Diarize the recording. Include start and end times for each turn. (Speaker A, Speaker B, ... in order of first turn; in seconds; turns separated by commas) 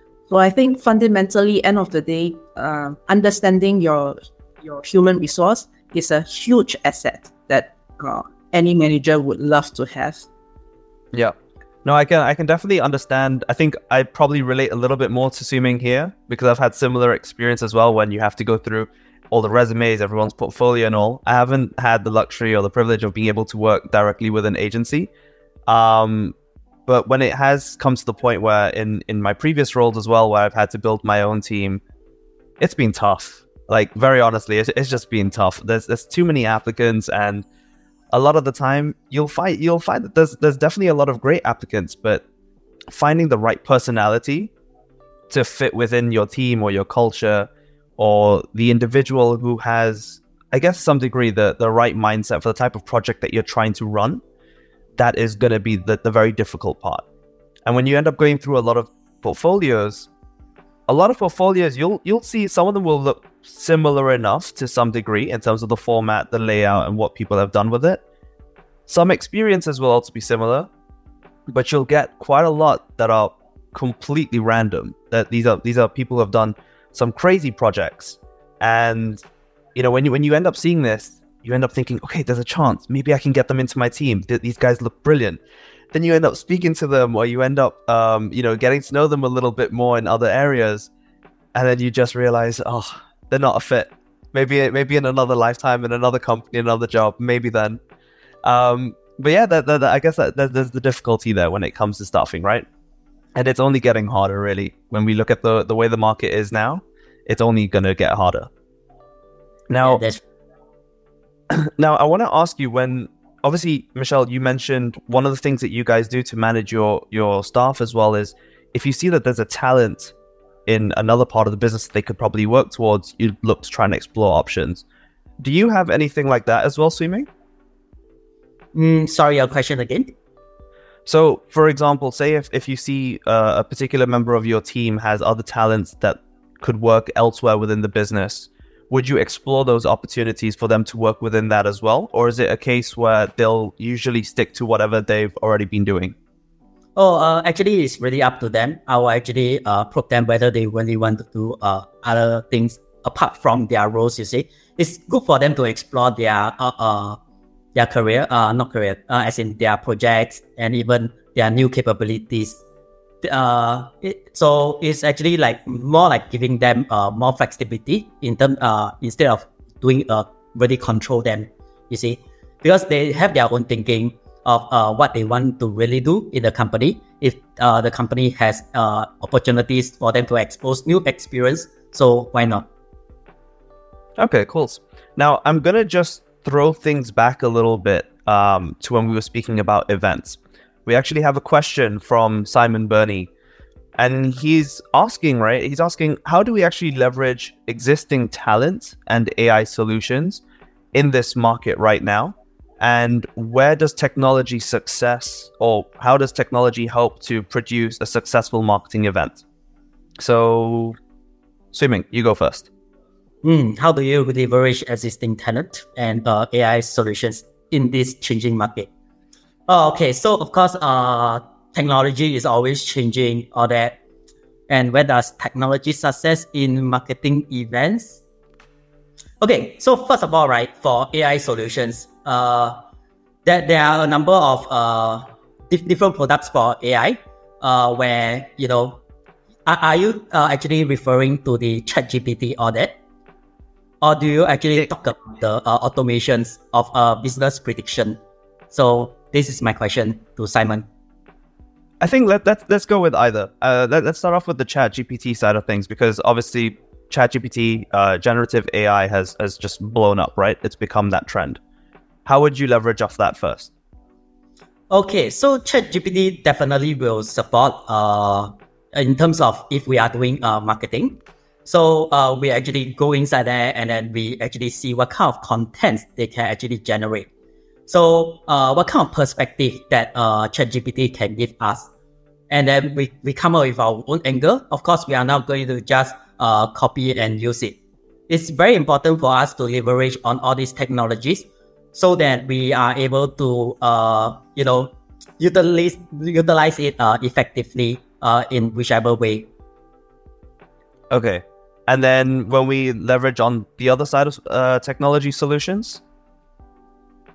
Speaker A: 0.3-10.2, Speaker B: 11.1-25.1, Speaker B: 25.7-26.3, Speaker B: 26.9-31.8, Speaker B: 32.6-37.4, Speaker B: 38.1-42.2, Speaker B: 42.9-44.5, Speaker B: 45.3-54.2, Speaker B: 55.0-57.0, Speaker B: 57.6-60.1, Speaker B: 60.9-68.0, Speaker B: 68.9-70.7, Speaker B: 71.5-79.2, Speaker B: 79.8-85.4, Speaker B: 85.9-90.9, Speaker B: 91.5-97.8, Speaker B: 98.4-102.6, Speaker B: 103.3-108.5, Speaker B: 109.7-110.0, Speaker C: 109.8-110.2, Speaker B: 111.5-120.1, Speaker B: 120.7-124.8, Speaker B: 125.4-127.3, Speaker C: 128.7-130.1, Speaker B: 131.1-146.2, Speaker C: 146.9-157.2, Speaker C: 157.7-162.6, Speaker C: 163.2-182.7, Speaker B: 184.2-193.3, Speaker B: 194.0-200.4, Speaker B: 200.9-209.4, Speaker B: 210.2-211.0, Speaker B: 211.7-212.7, Speaker C: 213.4-218.9, Speaker C: 219.7-224.0, Speaker C: 224.7-228.2, Speaker C: 229.4-232.8, Speaker C: 233.4-239.0, Speaker C: 239.7-243.0, Speaker C: 244.0-248.2, Speaker C: 248.7-250.9, Speaker B: 252.0-261.6, Speaker B: 262.2-263.7, Speaker C: 264.9-277.3, Speaker C: 277.9-281.9, Speaker C: 282.5-287.8, Speaker C: 288.3-299.5, Speaker B: 301.1-306.0